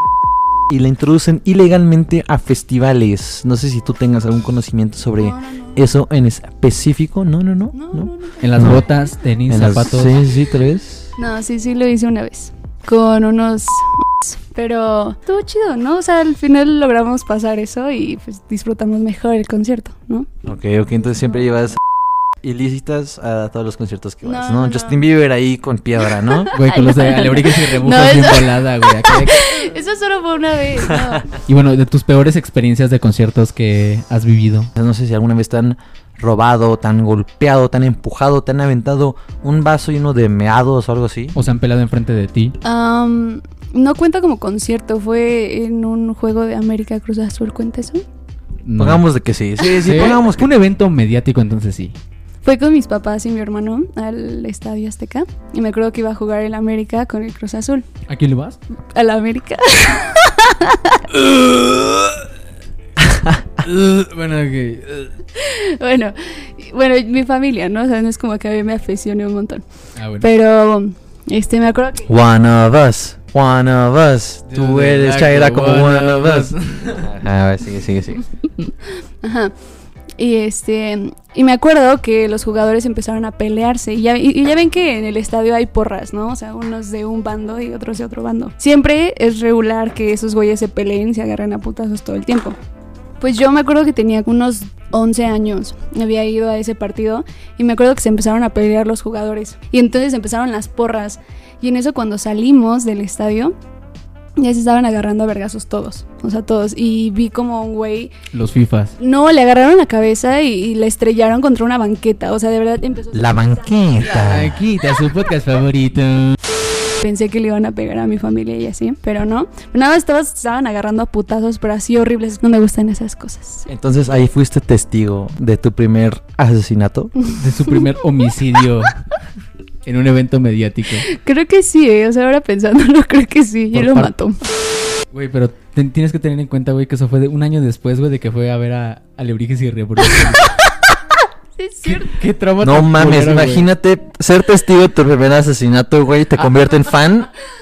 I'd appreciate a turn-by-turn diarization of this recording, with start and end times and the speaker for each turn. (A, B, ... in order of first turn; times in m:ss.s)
0:00.7-0:08.8 A
0:05.2-0:05.8 B
0:07.7-0:08.8 B
0:08.4-0:10.2 C
0:09.5-0:11.1 A
0:11.2-0:20.3 B
0:20.4-0:21.8 A
0:22.4-0:26.5 A
0:24.2-0:25.0 B
0:26.1-0:31.3 B
0:26.5-0:29.7 C
0:31.4-0:34.7 C
0:34.8-0:41.4 A
0:41.3-0:42.6 C
0:42.6-0:48.0 B
0:48.6-0:49.0 C
0:48.8-0:50.5 A
0:49.8-0:51.9 C
0:52.4-0:57.8 B
0:58.1-0:58.6 C
0:58.9-1:01.0 B
1:01.1-1:02.2 C
1:03.6-1:05.1 C
1:05.4-1:09.6 B
1:10.0-1:10.3 C
1:10.2-1:12.1 B
1:12.1-1:18.2 A
1:14.5-1:17.2 C
1:19.2-1:19.5 B
1:20.2-1:32.6 B
1:33.2-1:43.6 B
1:44.4-1:48.1 B
1:48.3-1:49.0 C
1:49.0-1:54.2 B
1:53.1-1:54.6 A
1:54.1-1:56.4 C
1:57.0-2:03.7 B
2:03.7-2:07.1 A
2:07.2-2:07.8 B
2:07.3-2:09.0 C
2:09.8-2:11.1 C
2:11.1-2:14.4 B
2:13.7-2:14.1 C
2:15.1-2:20.6 C
2:21.6-2:22.2 B
2:21.8-2:23.7 C
2:22.6-2:27.3 A